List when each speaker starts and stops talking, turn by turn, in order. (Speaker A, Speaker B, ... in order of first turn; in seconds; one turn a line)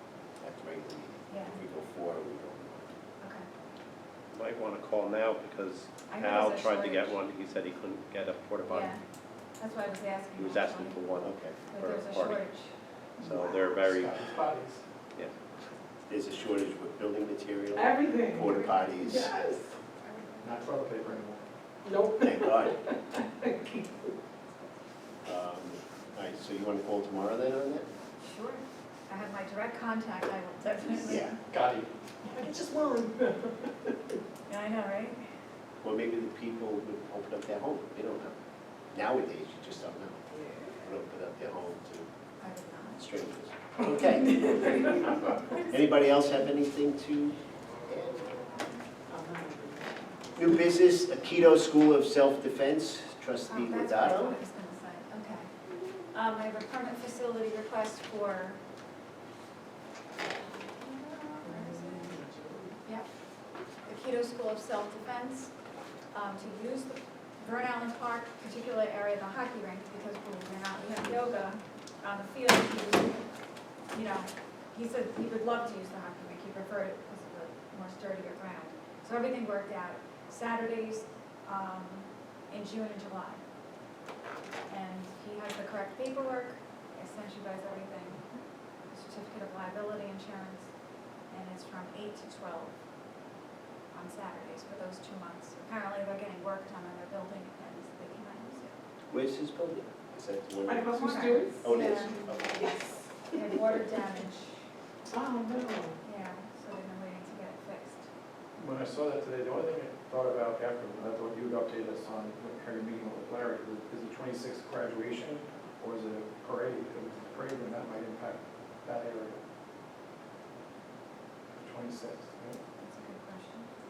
Speaker A: 0.4-2.9
Speaker B: 1.3-1.6
Speaker B: 3.2-3.5
Speaker C: 4.3-9.0
Speaker B: 6.1-7.1
Speaker B: 8.7-9.0
Speaker B: 9.6-11.1
Speaker C: 10.3-11.2
Speaker A: 11.2-11.6
Speaker B: 11.7-12.7
Speaker C: 11.8-12.4
Speaker C: 13.2-14.3
Speaker D: 14.0-14.8
Speaker A: 16.1-19.3
Speaker E: 17.8-19.7
Speaker B: 18.5-18.9
Speaker B: 20.0-20.6
Speaker D: 20.4-21.4
Speaker E: 21.8-24.1
Speaker A: 22.2-22.8
Speaker A: 25.2-27.9
Speaker B: 28.2-31.3
Speaker A: 31.1-31.3
Speaker D: 31.5-31.9
Speaker E: 32.3-33.7
Speaker B: 34.5-35.2
Speaker A: 35.8-38.4
Speaker A: 38.9-40.2
Speaker A: 40.8-42.1
Speaker B: 42.4-43.0
Speaker A: 43.0-44.4
Speaker E: 44.1-45.5
Speaker A: 45.7-47.4
Speaker A: 47.9-48.4
Speaker E: 49.1-50.0
Speaker A: 50.4-54.4
Speaker B: 53.5-55.5
Speaker B: 56.1-58.6
Speaker B: 60.8-62.1
Speaker E: 61.4-62.8
Speaker B: 63.9-65.5
Speaker B: 66.1-73.2
Speaker B: 73.9-83.4
Speaker B: 84.7-88.2
Speaker B: 88.9-90.7
Speaker B: 91.3-92.7
Speaker B: 93.9-98.7
Speaker A: 99.1-100.9
Speaker E: 100.7-101.6
Speaker B: 100.9-102.2
Speaker A: 101.6-102.7
Speaker E: 102.5-103.4
Speaker B: 103.3-104.6
Speaker E: 105.1-106.0
Speaker B: 106.0-108.0
Speaker D: 108.6-119.4
Speaker D: 121.5-122.6
Speaker B: 122.8-123.7